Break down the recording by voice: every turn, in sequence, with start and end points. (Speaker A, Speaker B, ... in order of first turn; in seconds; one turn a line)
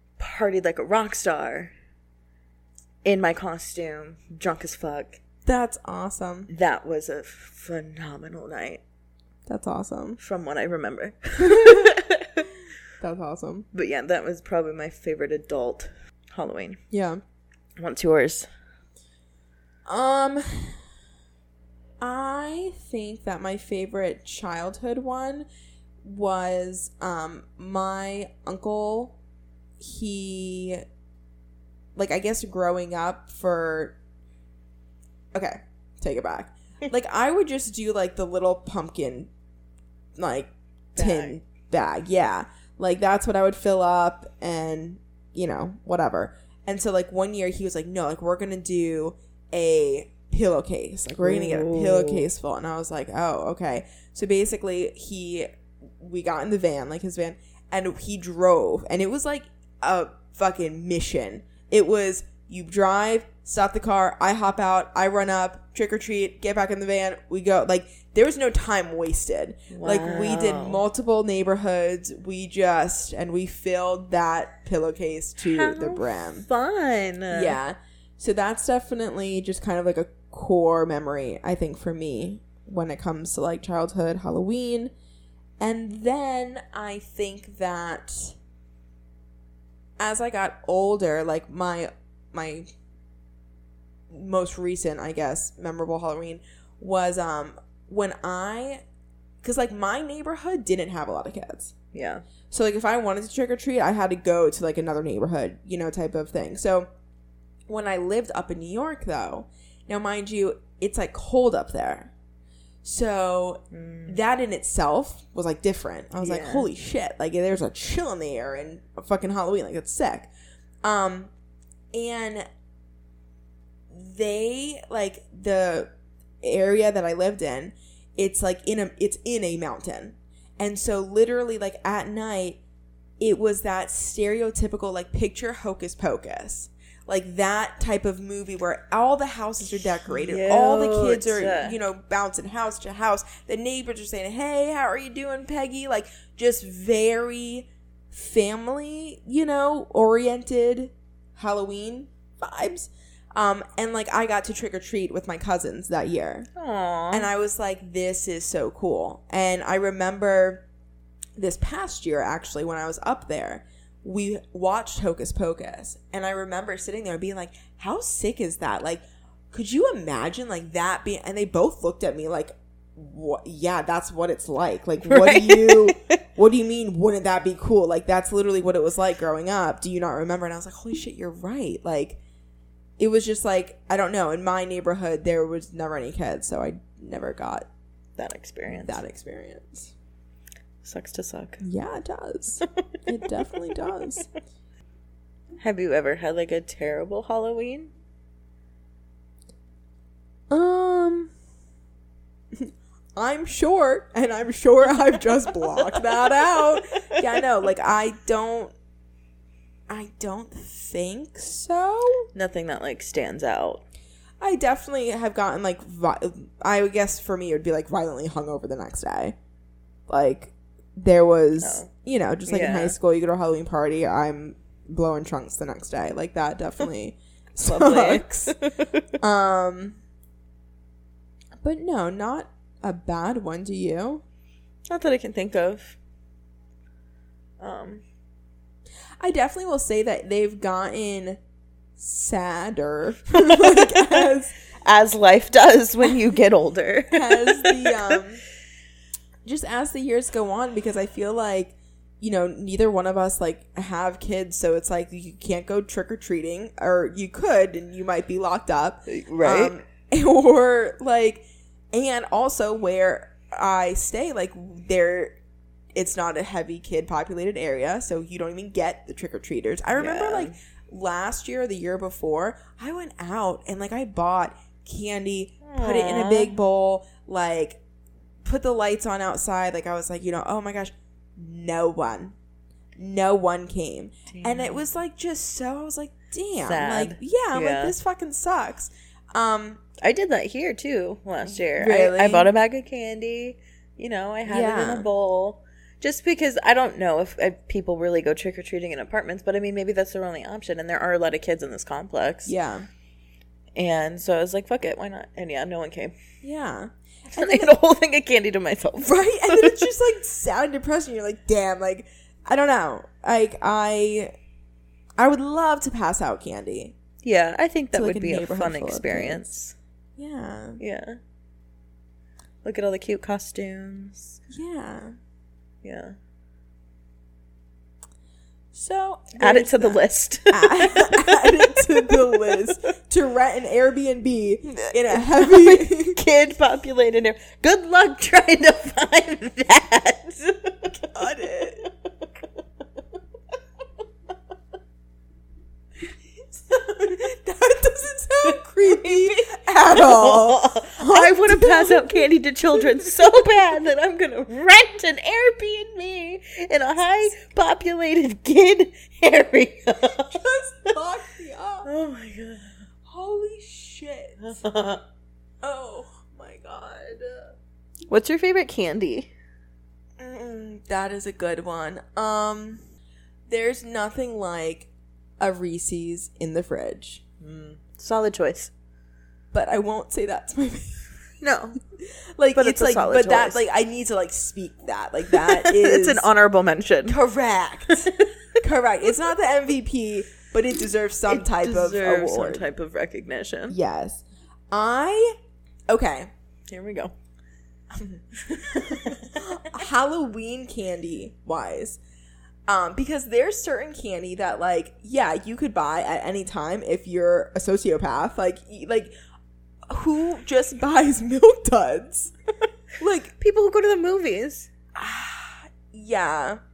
Speaker A: 0.2-1.7
Speaker A: 3.0-5.2
Speaker B: 5.5-6.5
Speaker A: 6.5-8.8
Speaker B: 9.5-10.2
Speaker A: 10.2-12.5
Speaker B: 11.5-11.9
Speaker B: 13.0-13.7
Speaker A: 13.7-16.8
Speaker B: 16.9-17.2
Speaker A: 17.8-18.5
Speaker B: 19.9-20.8
Speaker B: 22.0-25.5
Speaker B: 26.0-29.1
Speaker B: 29.8-30.8
Speaker B: 32.0-34.0
Speaker B: 35.3-39.3
Speaker B: 40.2-55.5
Speaker A: 41.0-41.4
Speaker A: 51.2-52.3
Speaker B: 56.0-76.5
Speaker A: 69.7-70.8
Speaker A: 75.4-77.6
Speaker B: 77.3-84.9
Speaker B: 85.6-88.4
Speaker B: 90.0-92.7
Speaker B: 94.1-98.8
Speaker B: 99.4-101.7
Speaker A: 101.9-102.2
Speaker B: 102.5-106.9
Speaker B: 107.7-112.1
Speaker B: 112.8-120.3
Speaker A: 113.7-114.2
Speaker A: 116.2-116.7
Speaker B: 120.8-121.3
Speaker B: 121.9-122.5
Speaker B: 123.9-125.9
Speaker B: 126.4-132.6
Speaker B: 133.2-156.5
Speaker A: 140.0-141.8
Speaker A: 156.6-157.3
Speaker B: 157.1-160.6
Speaker B: 161.4-182.2
Speaker A: 175.1-176.2
Speaker B: 183.0-187.7
Speaker A: 188.2-189.0
Speaker B: 188.8-189.9
Speaker A: 190.8-191.7
Speaker B: 191.6-194.3
Speaker A: 195.6-197.9
Speaker B: 200.5-201.3
Speaker B: 202.5-208.7
Speaker A: 206.0-206.6
Speaker B: 209.9-212.3
Speaker A: 212.3-213.8
Speaker B: 214.4-219.3
Speaker B: 220.1-228.6
Speaker A: 221.6-221.9
Speaker A: 222.5-223.0
Speaker A: 227.6-229.1
Speaker B: 229.2-230.0
Speaker B: 231.6-234.2
Speaker A: 234.9-236.0
Speaker A: 237.6-238.0
Speaker B: 239.2-241.4
Speaker B: 242.0-244.5
Speaker A: 243.3-244.3
Speaker A: 244.8-248.2
Speaker B: 247.1-248.4
Speaker B: 249.4-265.4
Speaker A: 259.1-259.8
Speaker B: 265.9-277.8
Speaker A: 269.9-270.6
Speaker A: 275.6-276.6
Speaker B: 278.4-282.4
Speaker B: 283.0-289.8
Speaker A: 284.3-284.9
Speaker A: 286.6-288.0
Speaker A: 290.0-302.5
Speaker B: 291.5-292.5
Speaker B: 294.5-295.1
Speaker B: 302.5-302.9
Speaker A: 303.8-306.1
Speaker B: 306.4-307.8
Speaker A: 307.3-309.9
Speaker B: 309.0-314.3
Speaker B: 315.2-316.9
Speaker A: 317.2-319.8
Speaker B: 317.9-319.6
Speaker B: 320.2-320.8
Speaker A: 320.8-321.2
Speaker A: 322.6-324.4
Speaker B: 324.5-325.1
Speaker A: 325.8-326.1
Speaker B: 328.7-336.2
Speaker A: 329.4-332.6
Speaker A: 334.7-341.1
Speaker B: 341.1-341.9
Speaker B: 346.5-353.4
Speaker A: 348.4-360.5
Speaker B: 360.1-361.9
Speaker A: 361.9-362.8
Speaker B: 363.1-364.5
Speaker A: 364.4-365.0
Speaker B: 365.6-367.6
Speaker A: 368.1-369.3
Speaker B: 370.2-372.8
Speaker B: 373.5-377.2
Speaker A: 377.4-378.7
Speaker B: 379.5-381.1
Speaker A: 381.4-381.8
Speaker B: 382.0-386.3
Speaker A: 382.6-383.6
Speaker A: 385.3-387.2
Speaker B: 387.1-392.6
Speaker A: 387.9-388.5
Speaker A: 391.3-393.8
Speaker B: 393.7-395.4
Speaker B: 395.9-396.3
Speaker A: 396.7-397.1
Speaker B: 397.9-402.0
Speaker A: 398.5-399.7
Speaker B: 402.7-409.1
Speaker B: 409.9-412.3
Speaker B: 413.0-413.3
Speaker A: 413.4-414.7
Speaker B: 414.9-416.6